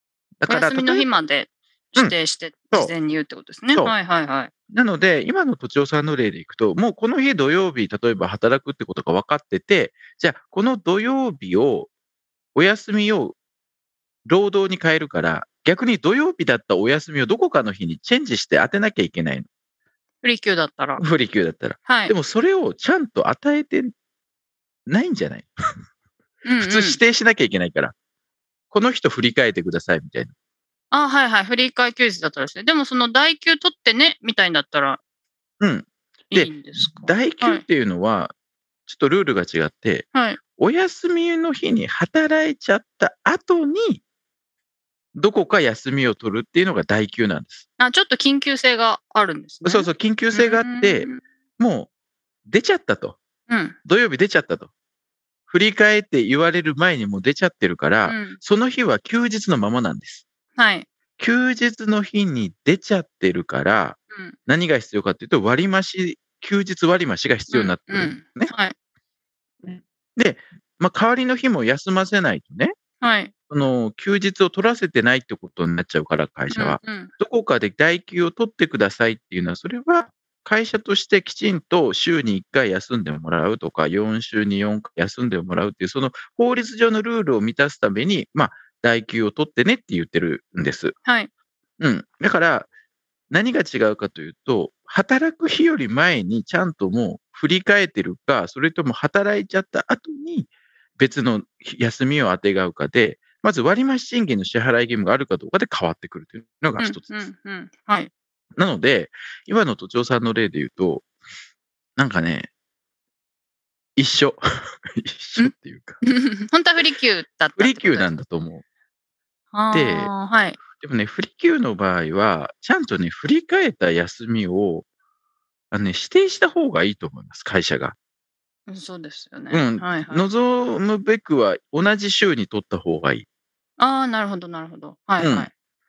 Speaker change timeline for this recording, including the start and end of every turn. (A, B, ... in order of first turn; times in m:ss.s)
0:00.4-0:01.1 A
0:00.5-0:04.5 B
0:04.7-0:11.9 A
0:12.6-0:13.4 A
0:14.3-0:19.5 A
0:20.2-0:21.0 B
0:21.0-0:23.9 A
0:21.9-0:22.1 B
0:24.9-0:25.5 A
0:26.4-0:27.0 B
0:26.6-0:27.9 A
0:28.7-0:30.3 A
0:30.9-0:35.0 B
0:35.6-0:38.3 A
0:36.3-0:37.6 B
0:38.9-0:44.0 A
0:40.1-0:40.4 B
0:45.2-0:47.7 A
0:47.8-0:51.2 B
0:49.6-0:51.9 A
0:52.4-0:53.2 A
0:53.5-0:53.8 B
0:53.8-0:54.7 A
0:55.5-1:00.2 A
0:58.1-0:58.4 B
1:00.6-1:00.9 B
1:01.2-1:08.5 A
1:07.5-1:08.8 B
1:09.6-1:12.7 A
1:13.0-1:13.3 B
1:13.5-1:31.0 A
1:16.5-1:17.1 B
1:31.0-1:31.3 B
1:31.8-1:32.7 A
1:33.3-1:47.2 A
1:46.8-1:48.1 B
1:48.6-1:51.1 A
1:52.0-1:52.5 A
1:54.0-1:56.0 A
1:56.0-1:58.1 B
1:57.6-1:58.6 A
1:59.5-2:00.6 B
1:59.7-2:00.1 A
2:00.6-2:04.8 A
2:05.7-2:08.0 A
2:08.7-2:10.3 B
2:09.5-2:13.3 A
2:13.8-2:15.5 B
2:15.2-2:15.5 A